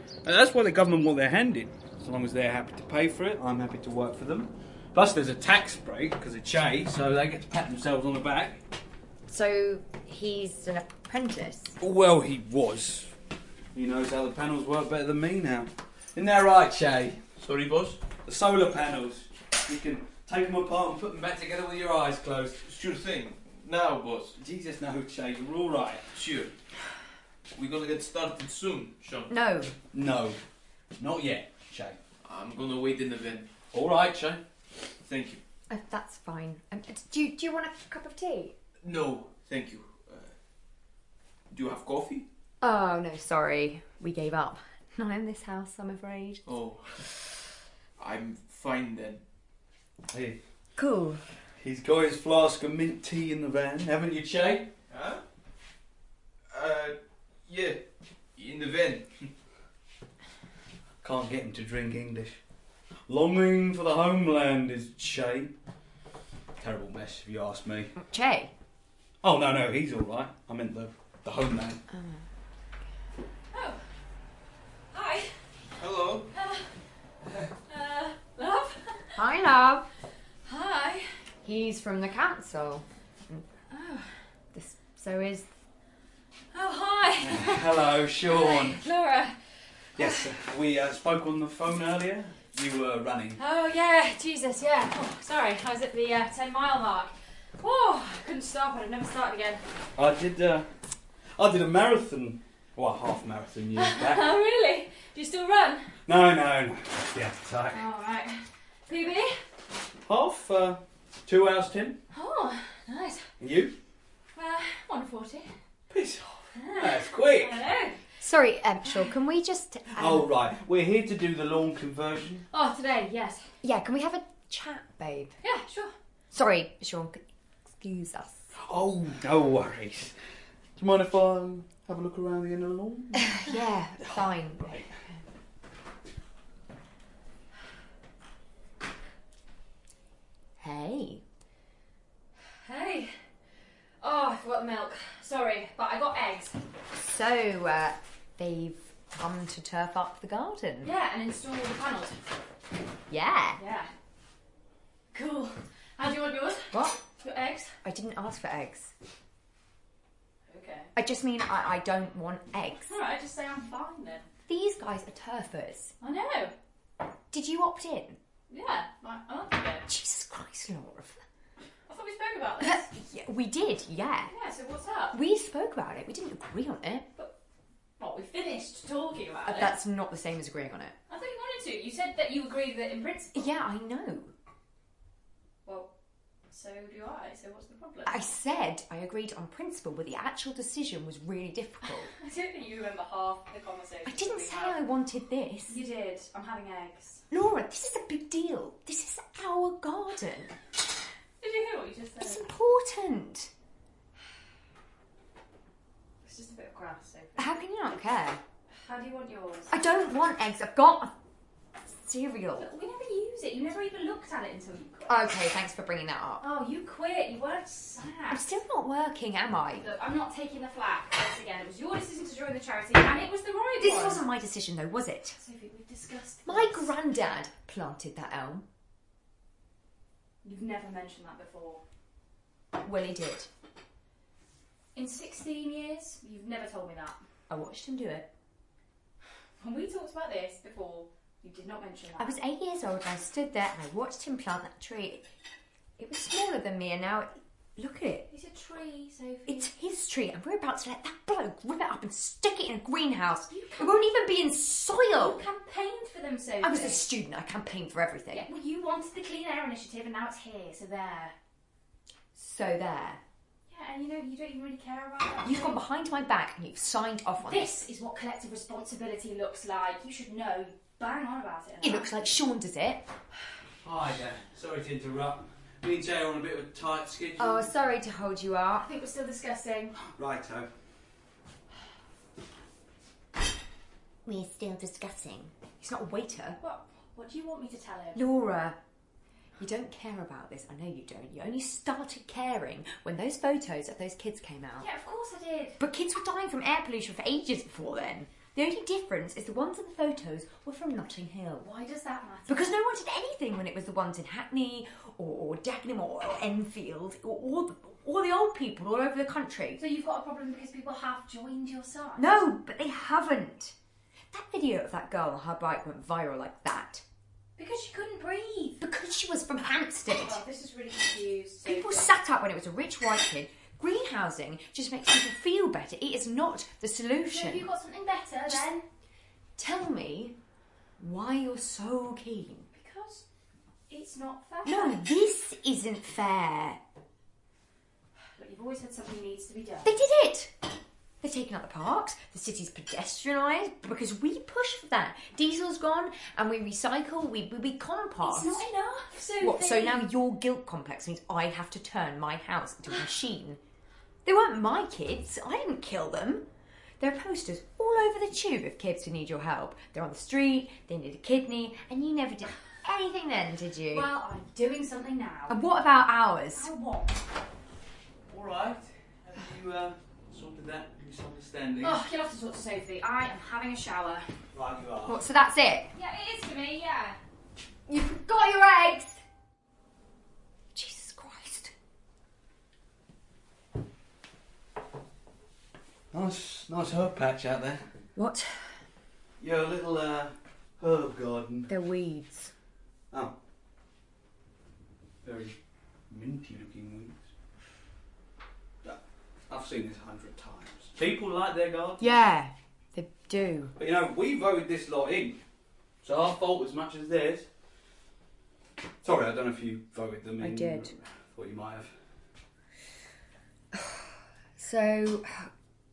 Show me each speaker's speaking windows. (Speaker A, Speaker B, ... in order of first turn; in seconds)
Speaker A: 0.2-8.6, 11.8-13.1, 13.7-17.2, 18.1-22.6, 24.4-26.1, 29.9-30.4, 31.0-32.0, 33.7-34.4, 50.1-50.4, 51.6-54.7, 61.0-62.4, 63.1-65.5, 66.6-67.9, 69.2-71.8, 87.2-88.8, 90.0-93.4, 100.0-100.7, 101.3-104.2, 106.0-107.8, 110.0-112.0, 113.4-113.7, 115.9-117.6, 119.9-122.5, 128.6-130.1, 130.8-134.9, 273.8-277.7, 280.0-280.7, 368.3-372.0, 374.5-375.2, 386.1-387.8, 389.4-391.7, 395.2-395.6, 396.1-397.2, 398.8-402.1, 403.8-405.4, 406.0-407.5, 409.0-411.9
Speaker B: 9.3-11.8, 29.3-29.7, 35.7-38.5, 42.6-46.4, 50.8-51.2, 68.0-68.5, 71.9-72.2, 79.2-79.9, 81.4-83.4, 84.5-85.5, 118.2-120.3, 123.6-125.3, 126.3-127.2, 127.8-128.5, 133.2-134.8, 140.6-141.2, 146.9-150.9, 153.1-153.6, 157.8-158.9, 160.9-162.9, 164.5-165.9, 167.3-168.2, 169.9-171.2, 172.6-174.3, 175.1-177.1, 179.4-180.9, 183.3-184.3, 188.1-192.1, 194.0-195.8, 197.3-200.5, 202.2-203.5, 207.4-208.4, 209.7-211.1, 211.9-212.7, 215.1-216.4, 218.3-219.8, 223.8-225.3, 226.4-228.7, 232.8-233.5, 237.5-238.3, 242.2-245.2, 246.0-248.2, 249.5-255.4, 256.6-258.5, 262.4-263.2, 265.4-267.9, 271.8-273.0, 277.4-278.9, 284.2-286.6, 288.1-288.8, 289.6-294.9, 295.8-301.7, 302.5-309.8, 312.1-313.7, 314.3-317.0, 318.8-320.4, 321.6-327.6, 329.6-330.4, 331.0-332.7, 334.6-336.8, 339.8-340.5, 341.2-348.6, 349.4-353.6, 354.2-356.5, 357.0-364.1, 365.5-366.7, 375.0-375.9, 377.9-379.2, 380.7-381.7, 388.1-388.8, 391.7-392.5, 402.0-403.7, 410.4-410.9, 413.7-415.5
Speaker C: 17.4-18.0, 22.6-24.4, 26.1-26.5, 27.5-29.3, 32.2-33.5, 35.0-35.4, 38.8-40.3, 41.5-42.3, 46.5-47.0, 48.0-49.2, 54.9-55.2, 56.5-57.8, 58.3-59.3, 75.8-76.3
Speaker D: 73.5-73.8, 74.9-75.3, 76.3-76.6, 77.7-79.2, 80.4-81.1, 83.7-84.1, 86.5-87.7, 88.2-89.3, 93.4-99.6, 103.8-105.9, 107.7-109.4, 112.1-113.3, 114.3-115.5, 116.5-118.0, 122.5-123.5, 125.4-125.9, 142.6-143.1, 144.0-146.6, 150.8-152.2, 153.6-153.9, 155.1-157.8, 160.5-160.9, 162.8-164.3, 166.0-166.5, 168.5-169.8, 171.9-172.9, 174.3-175.2, 178.0-179.7, 181.1-183.5, 186.5-188.3, 191.8-194.8, 195.7-197.2, 201.4-202.5, 206.2-207.6, 208.7-210.0, 212.5-215.2, 216.4-218.6, 219.8-224.2, 225.3-226.9, 230.4-231.8, 234.9-237.2, 239.6-242.4, 248.3-249.7, 253.5-254.1, 255.1-257.1, 258.3-261.3, 263.7-265.8, 267.4-272.1, 278.8-279.9, 286.6-288.2, 294.8-295.8, 301.6-302.7, 309.8-312.4, 317.6-318.8, 320.1-322.1, 327.3-328.8, 332.7-333.2, 333.9-335.0, 338.4-339.9, 348.2-350.1, 363.9-365.7, 366.5-367.2, 371.8-374.2, 375.9-377.2